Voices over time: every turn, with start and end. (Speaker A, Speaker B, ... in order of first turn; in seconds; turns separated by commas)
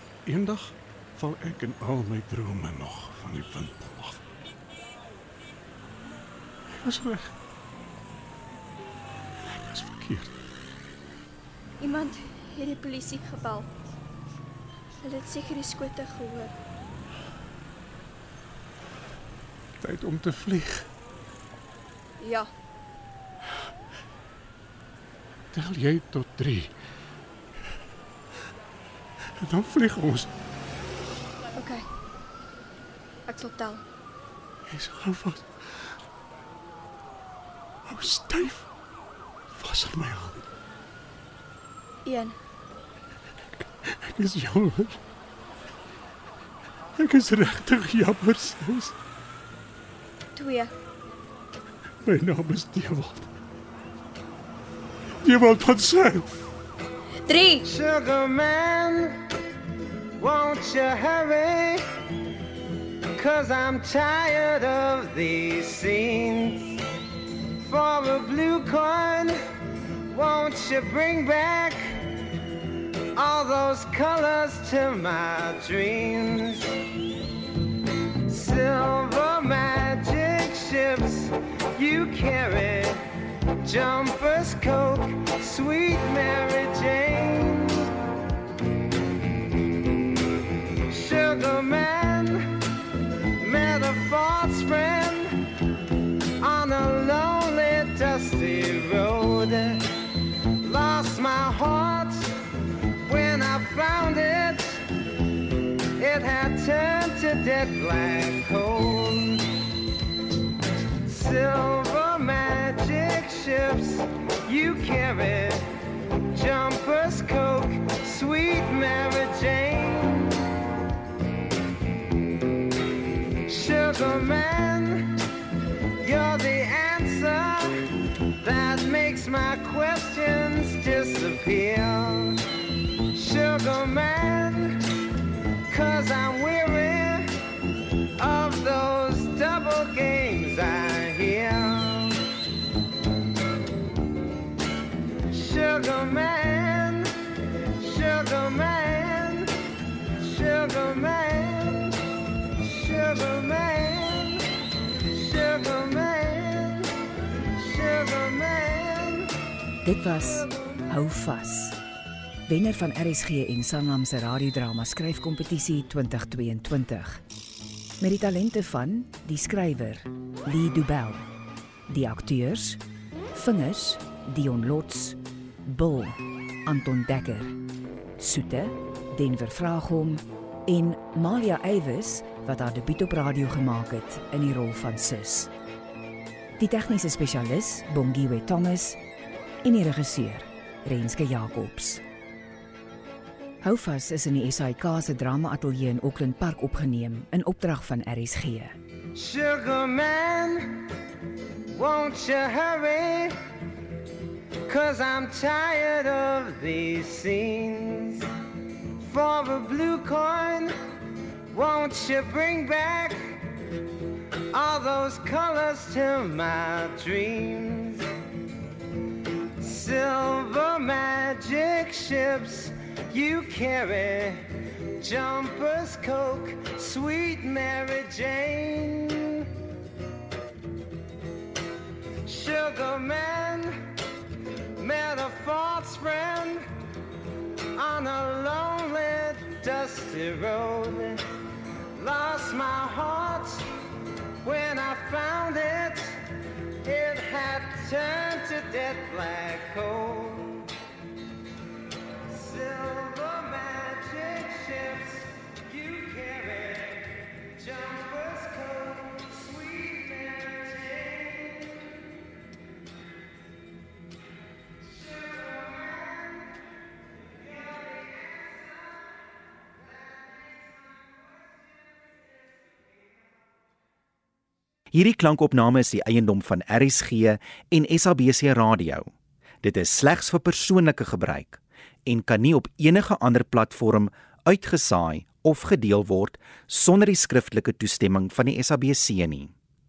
Speaker A: 0.3-4.2, Speaker A: 6.7-7.3, Speaker A: 9.4-10.3, Speaker B: 11.8-13.7, Speaker B: 15.0-16.5, Speaker A: 19.8-20.9, Speaker B: 22.2-22.5, Speaker A: 25.5-26.7, Speaker A: 29.4-30.3, Speaker B: 31.6-31.9, Speaker B: 33.3-33.8, Speaker A: 34.7-35.5, Speaker A: 37.9-38.7, Speaker A: 39.5-40.4, Speaker B: 42.0-42.4, Speaker A: 43.9-45.0, Speaker A: 47.0-49.0, Speaker B: 50.4-50.7, Speaker A: 52.0-53.3, Speaker A: 55.2-56.3, Speaker B: 57.3-57.7, Speaker C: 57.6-59.2, Speaker C: 60.2-61.9, Speaker C: 63.2-66.8, Speaker C: 67.6-69.4, Speaker C: 70.1-72.2, Speaker C: 73.1-76.8, Speaker C: 78.3-83.1, Speaker C: 83.6-87.9, Speaker C: 90.9-92.6, Speaker C: 93.4-95.5, Speaker C: 96.4-99.9, Speaker C: 100.6-102.3, Speaker C: 103.1-104.8, Speaker C: 106.0-109.5, Speaker C: 111.0-115.7, Speaker C: 116.3-120.4, Speaker C: 123.5-125.2, Speaker C: 126.0-127.9, Speaker C: 128.4-132.4, Speaker C: 133.1-135.0, Speaker C: 135.7-137.4, Speaker C: 138.2-142.2, Speaker C: 145.3-147.2, Speaker C: 147.8-149.7, Speaker C: 150.2-152.1, Speaker C: 152.6-154.5, Speaker C: 155.1-157.0, Speaker C: 157.5-159.3, Speaker D: 159.8-161.8, Speaker D: 162.5-167.2, Speaker D: 168.0-171.3, Speaker D: 171.9-172.8, Speaker D: 173.3-177.6, Speaker D: 178.2-185.5, Speaker D: 186.6-189.0, Speaker D: 189.6-192.0, Speaker D: 193.6-198.8, Speaker C: 199.2-200.9, Speaker C: 201.7-203.4, Speaker C: 204.7-208.3, Speaker C: 209.0-210.8, Speaker C: 211.5-213.4, Speaker C: 214.5-218.1, Speaker C: 219.6-229.5, Speaker C: 232.2-233.9, Speaker C: 234.8-236.7, Speaker C: 237.8-241.2, Speaker C: 242.0-243.7, Speaker C: 244.4-246.2, Speaker C: 246.8-250.7, Speaker C: 252.3-261.9, Speaker C: 264.8-266.6, Speaker C: 267.2-269.1, Speaker C: 269.9-271.3, Speaker E: 274.9-279.1, Speaker E: 279.6-289.5